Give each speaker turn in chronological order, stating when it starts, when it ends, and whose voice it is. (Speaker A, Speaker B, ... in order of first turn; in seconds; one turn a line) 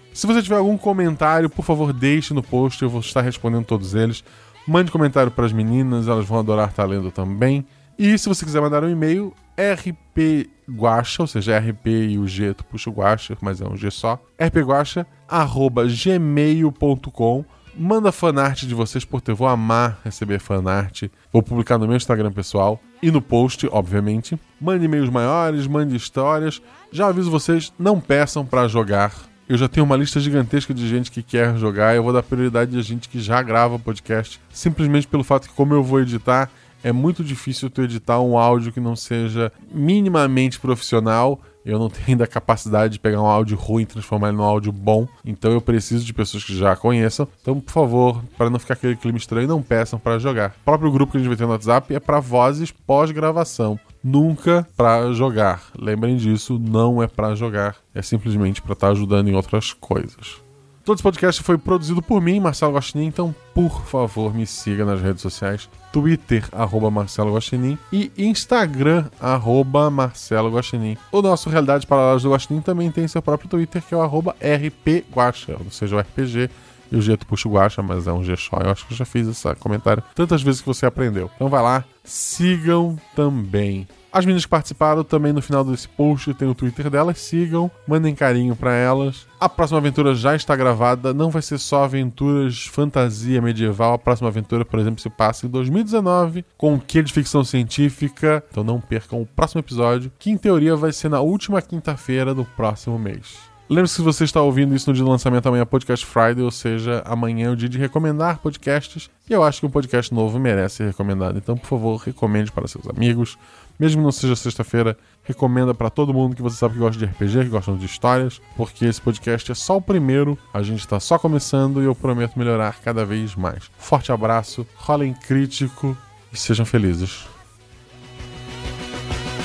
Speaker A: 0.1-127.3